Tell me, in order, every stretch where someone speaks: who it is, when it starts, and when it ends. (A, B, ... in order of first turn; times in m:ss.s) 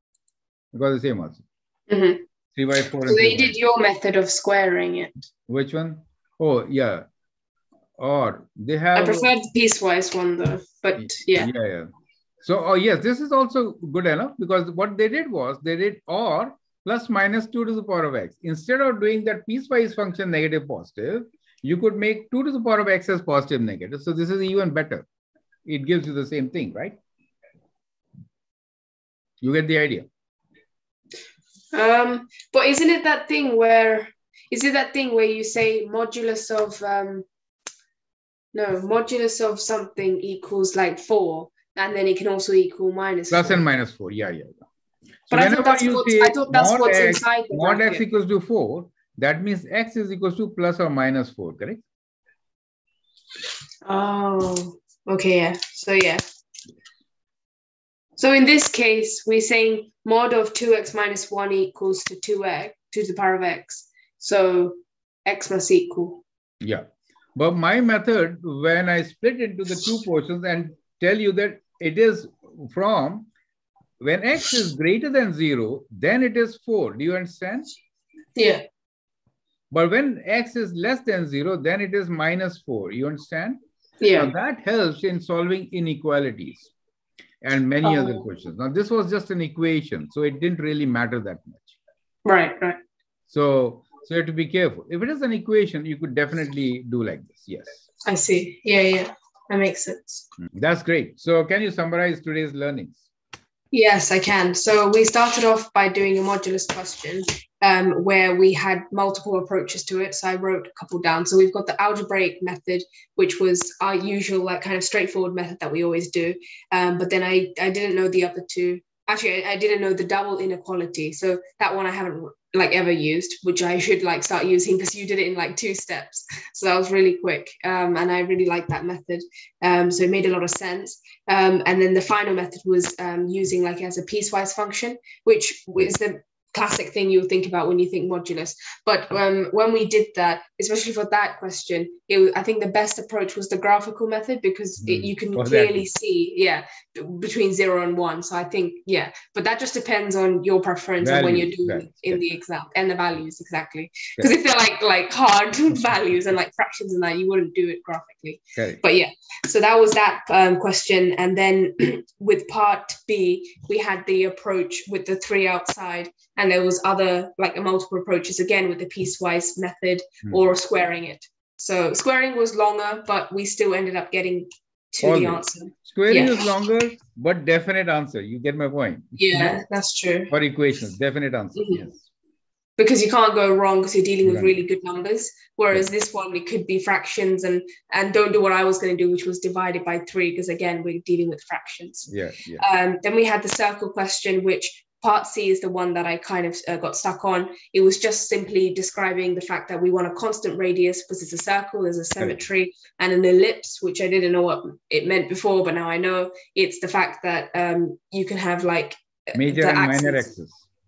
0:00.7-0:01.4 A
0:01.9-0:02.2 B
0:02.6-0:03.6 A
0:03.1-0:05.3 B
0:05.5-0:07.0 A
0:08.0-0:09.3 A
0:09.0-0:11.5 B
0:11.0-0:11.9 A
0:12.4-0:25.1 A
0:25.7-0:27.0 A
0:29.4-0:30.1 A
0:31.7-0:37.3 B
0:38.5-0:43.6 B
0:43.3-0:44.7 A
0:45.3-0:51.8 A
0:45.3-0:48.0 B
0:53.8-0:56.2 B
0:58.2-1:06.2 B
1:06.6-1:13.3 A
1:14.0-1:17.7 A
1:18.4-1:18.6 B
1:19.7-1:23.6 A
1:24.0-1:24.3 B
1:24.2-1:26.7 A
1:27.4-1:31.8 A
1:27.8-1:28.3 B
1:32.2-1:32.8 B
1:33.3-1:37.8 A
1:38.0-1:40.3 B
1:40.4-1:43.1 A
1:43.7-2:56.4 B
2:24.8-2:25.9 A
2:31.0-2:32.2 A
2:38.6-2:38.8 A
2:55.0-2:59.6 A
2:59.2-3:00.3 B
3:00.3-3:02.0 A
3:01.6-3:01.8 B
3:02.8-3:30.3 B
3:04.2-3:04.6 A
3:12.1-3:12.6 A
3:29.3-3:30.7 A